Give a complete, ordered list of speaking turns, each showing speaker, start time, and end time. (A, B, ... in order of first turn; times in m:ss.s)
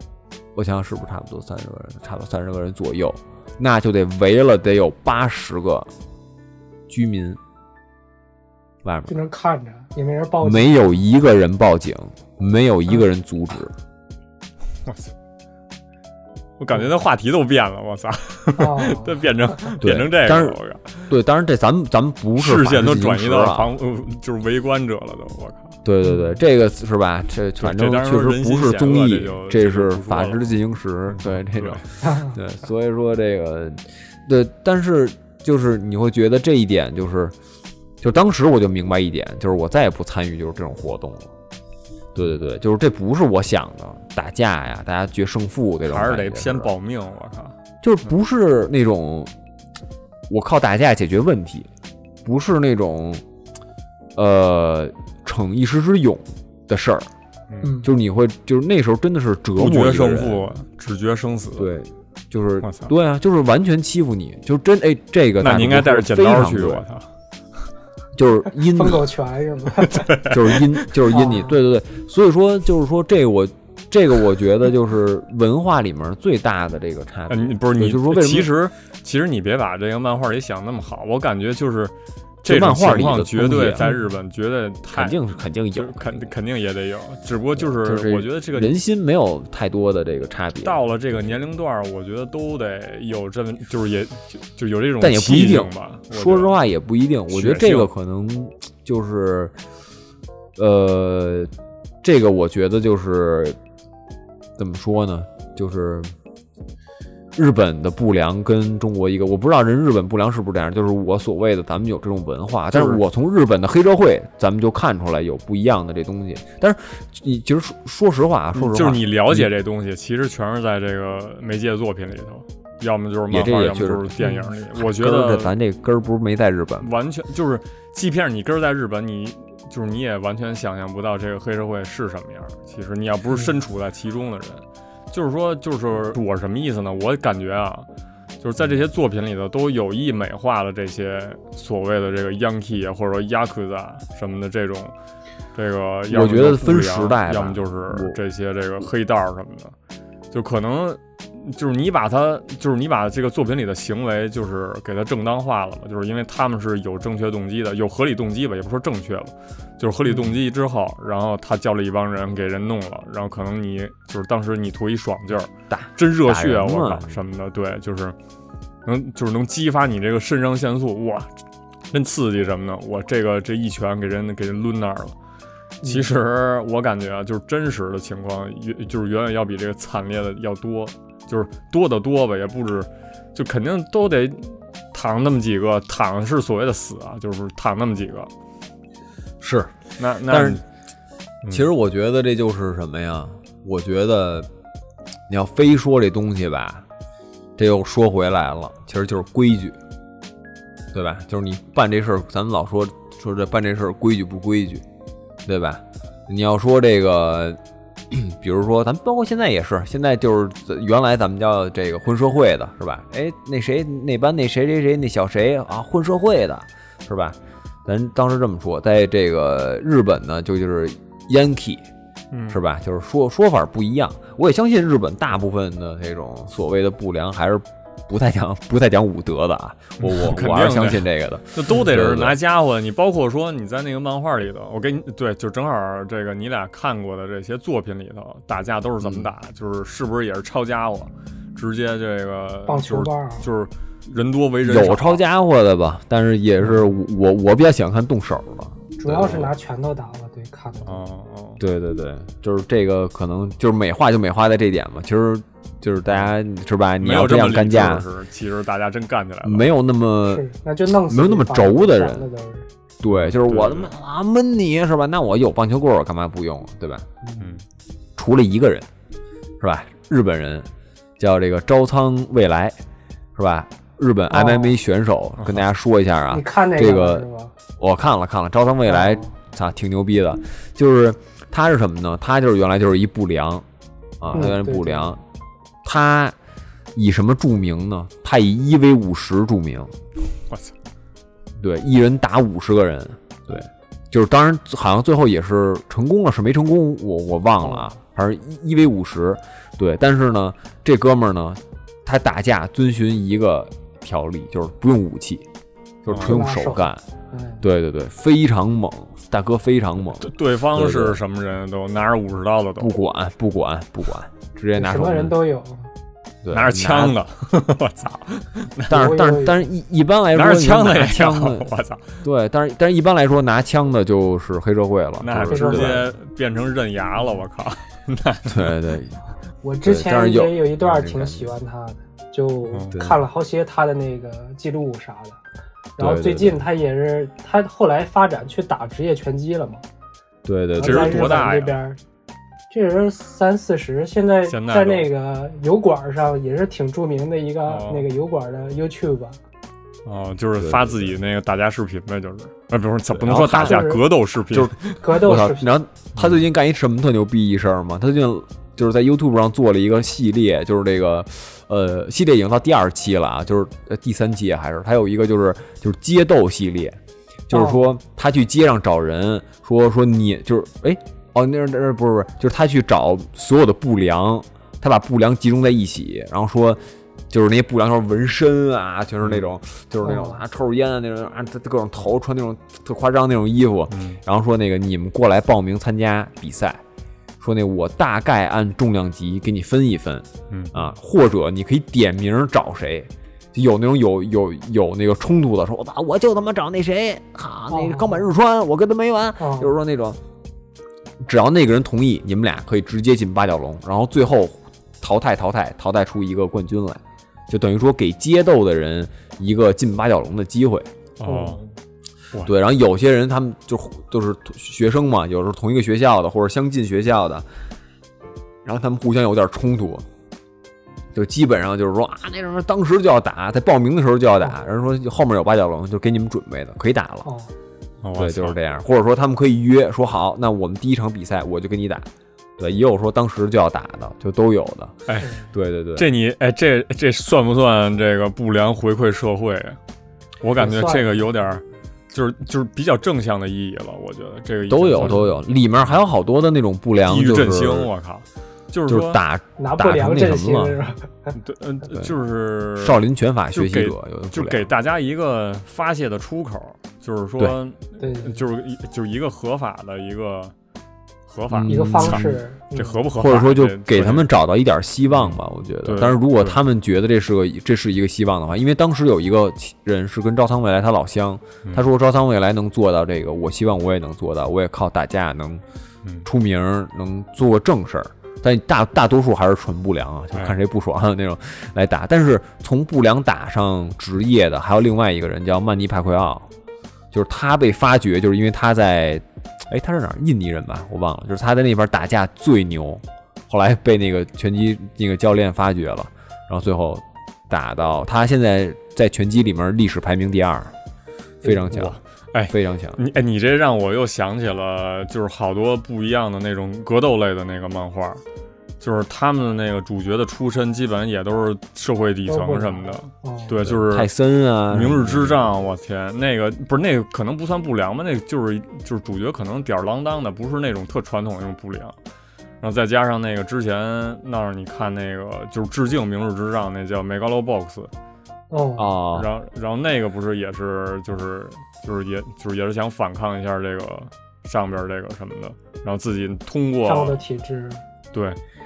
0:00.5-0:05.9 A
0:06.9-0:07.4 A
0:08.8-0:09.1 A
0:09.1-0:11.0 B
0:10.4-0:13.7 A
0:14.8-0:15.1 C
0:16.6-0:21.1 C
0:18.6-0:19.7 B
0:19.8-0:23.7 A
0:22.4-0:25.8 C
0:25.8-0:37.3 A
0:26.0-0:26.4 B
0:27.6-0:30.5 C
0:31.1-0:31.8 C
0:32.0-0:32.3 B
0:38.0-0:41.3 A
0:42.1-0:46.7 A
0:45.8-0:47.5 C
0:47.8-0:49.3 A
0:50.3-0:51.7 A
0:52.2-0:53.2 A
0:54.2-0:57.1 A
0:57.6-0:57.9 B
0:57.8-1:00.5 A
0:59.6-1:01.7 C
1:01.6-1:06.9 A
1:02.6-1:02.9 C
1:05.4-1:07.1 C
1:08.1-1:09.0 A
1:08.6-1:10.0 B
1:09.8-1:10.9 C
1:10.2-1:18.5 A
1:11.1-1:11.6 B
1:17.3-1:25.2 C
1:22.4-1:23.9 A
1:23.8-1:24.1 B
1:24.9-1:26.3 A
1:25.7-1:28.8 C
1:27.6-1:30.8 A
1:30.6-1:36.6 C
1:35.0-1:39.5 A
1:37.3-1:37.9 C
1:40.6-1:41.5 A
1:42.0-1:43.6 A
1:44.6-1:46.1 A
1:47.3-1:59.5 A
1:52.7-1:53.0 C
1:58.5-2:05.5 C
2:03.3-2:06.9 A
2:06.8-2:17.9 C
2:18.4-2:24.9 C
2:25.5-2:29.7 C
2:26.1-2:28.2 A
2:30.3-2:48.2 C
2:45.7-2:47.2 A
2:48.8-2:51.3 C
2:51.9-2:55.1 C
2:55.8-2:56.1 B
2:55.8-3:08.3 C
3:09.4-3:09.7 A
3:10.0-3:10.6 C
3:10.3-3:10.6 A
3:11.5-3:14.5 A
3:15.3-3:16.8 A
3:17.6-3:19.8 A
3:20.9-3:24.8 A
3:25.4-3:27.6 A
3:28.1-3:41.8 A
3:42.3-3:42.6 C
3:42.5-3:52.4 A
3:50.0-4:05.2 C
3:59.0-3:59.3 A
4:02.6-4:03.5 B
4:04.6-4:09.5 A
4:09.0-4:11.0 B
4:10.8-4:11.6 C
4:11.6-4:18.1 A
4:16.1-4:16.3 C
4:17.0-4:19.7 C
4:19.4-4:22.3 A
4:20.2-4:22.7 B
4:23.0-4:27.3 A
4:23.0-4:23.9 C
4:27.4-4:27.6 C
4:28.2-4:28.9 A
4:29.6-4:30.7 A
4:31.2-4:32.8 A
4:33.3-4:43.6 A
4:34.3-4:34.8 B
4:35.4-4:35.6 C
4:36.3-4:37.5 B
4:38.8-4:39.3 B
4:44.2-4:45.2 A
4:44.3-4:45.2 B
4:45.8-4:46.4 A
4:46.9-4:49.9 A
4:50.5-4:50.7 C
4:51.6-5:05.4 A
4:57.6-4:57.9 B
5:06.0-5:07.0 A
5:06.1-5:06.3 C
5:06.2-5:07.6 B
5:07.6-5:11.2 A
5:10.2-5:12.9 C
5:12.8-5:15.4 A
5:14.8-5:15.9 B
5:16.4-5:17.2 A
5:16.5-5:19.0 C
5:18.9-5:19.7 B
5:18.9-5:21.7 A
5:20.3-5:22.2 C
5:22.2-5:26.0 A
5:25.2-5:28.7 C
5:25.4-5:26.0 B
5:28.5-5:29.2 A
5:29.6-5:35.4 B
5:29.8-5:31.5 A
5:32.7-5:33.0 C
5:32.9-5:33.2 A
5:36.0-5:39.8 B
5:36.0-5:36.6 A
5:40.4-5:41.4 A
5:40.8-5:42.0 B
5:40.8-5:41.8 C
5:42.7-5:49.4 B
5:44.5-5:45.1 C
5:47.6-5:48.1 C
5:50.0-5:55.0 C
5:50.6-5:51.2 A
5:53.1-5:54.0 A
5:53.5-5:54.1 B
5:54.5-6:26.8 A
5:54.9-5:55.7 B
5:56.1-5:56.4 C
6:07.5-6:07.9 B
6:20.0-6:20.4 B
6:23.9-6:24.2 C
6:27.4-6:40.2 A
6:30.5-6:30.9 C
6:37.7-6:38.3 B
6:39.4-6:39.7 B
6:41.2-6:50.9 A
6:51.2-6:51.7 C
6:52.4-6:57.4 A
6:58.6-7:00.0 A
7:01.1-7:07.3 A
7:07.2-7:07.5 B
7:08.0-7:08.6 C
7:08.2-7:15.0 A
7:15.1-7:15.3 C
7:15.5-7:16.1 A
7:16.0-7:19.8 C
7:20.4-7:25.4 C
7:20.6-7:21.2 B
7:24.7-7:27.9 A
7:27.0-7:29.2 C
7:28.9-7:30.8 A
7:29.6-7:31.3 B
7:31.3-7:33.0 C
7:32.7-7:34.7 A
7:33.5-7:40.5 C
7:38.0-7:38.4 B
7:41.3-7:44.3 C
7:41.5-7:42.4 A
7:41.7-7:43.0 B
7:43.2-7:55.6 A
7:45.1-7:46.6 C
7:56.2-8:06.5 A
8:00.3-8:00.6 C
8:07.1-8:20.7 A
8:21.4-8:22.0 A
8:21.5-8:28.2 C
8:22.5-8:23.0 A
8:28.8-8:34.1 C
8:32.3-8:33.6 B
8:33.6-8:35.4 A
8:34.7-8:42.0 C
8:42.6-8:47.9 C
8:48.5-8:49.0 B
8:48.8-8:49.3 A
8:49.1-8:57.2 C
8:56.8-8:57.8 B
8:58.1-8:58.4 C